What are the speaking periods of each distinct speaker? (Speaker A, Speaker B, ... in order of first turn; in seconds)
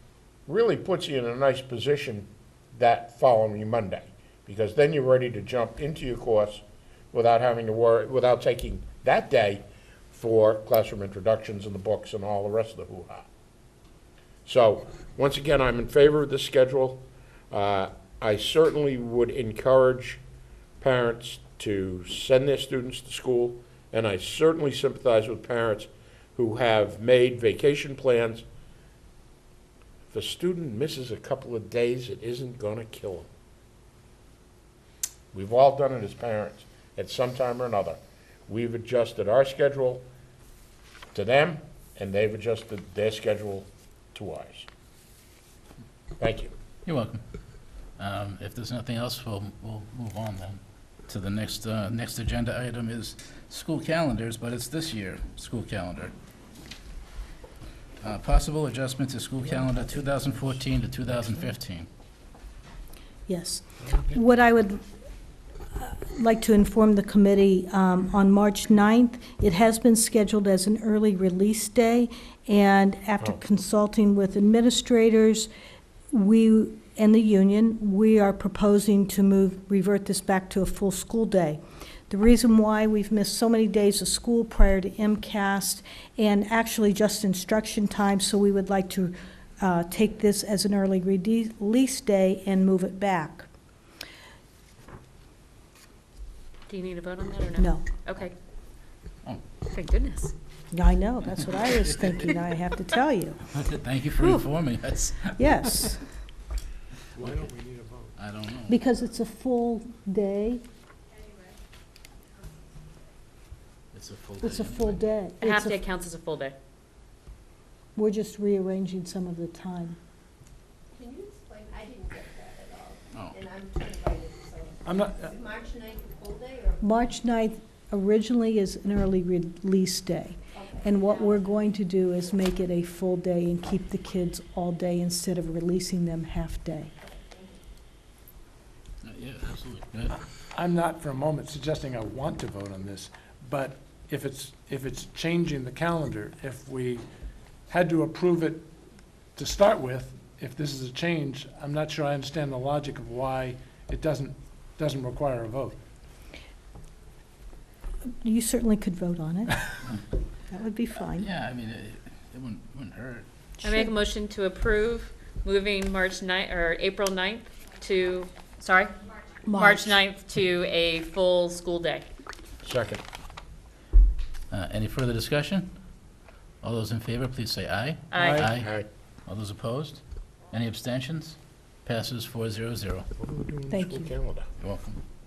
Speaker A: 0.5-13.3, 14.4-20.2, 20.8-28.4, 30.1-33.3, 35.3-40.0, 41.1-44.7, 46.2-46.5, 172.6-173.0, 178.5-178.9, 183.2-184.5
Speaker B: 46.9-47.2, 48.0-56.1, 58.0-61.9, 102.0-102.2, 103.5-106.0, 107.2-107.5, 108.2-108.8, 113.9-115.1, 123.1-123.4, 139.0-140.2, 161.2-163.2, 174.5-175.8, 176.6-183.1, 184.6-185.0
Speaker C: 63.3-64.8, 65.8-75.5, 76.1-93.5, 97.6-97.9, 100.7-103.4, 104.1-104.4, 105.3-106.1, 108.7-110.6, 114.4-115.8, 118.0-120.0, 126.8-136.9, 158.2-161.3, 163.6-163.9, 169.4-170.0, 183.7-184.1
Speaker D: 96.7-98.3, 99.7-100.3, 115.4-116.5, 163.6-168.9, 169.5-172.0, 178.1-178.4
Speaker E: 107.1-108.1, 124.8-125.3, 140.3-147.1, 147.7-148.7, 149.3-155.8, 178.1-178.5
Speaker F: 120.9-127.2, 130.5-131.5, 137.0-137.6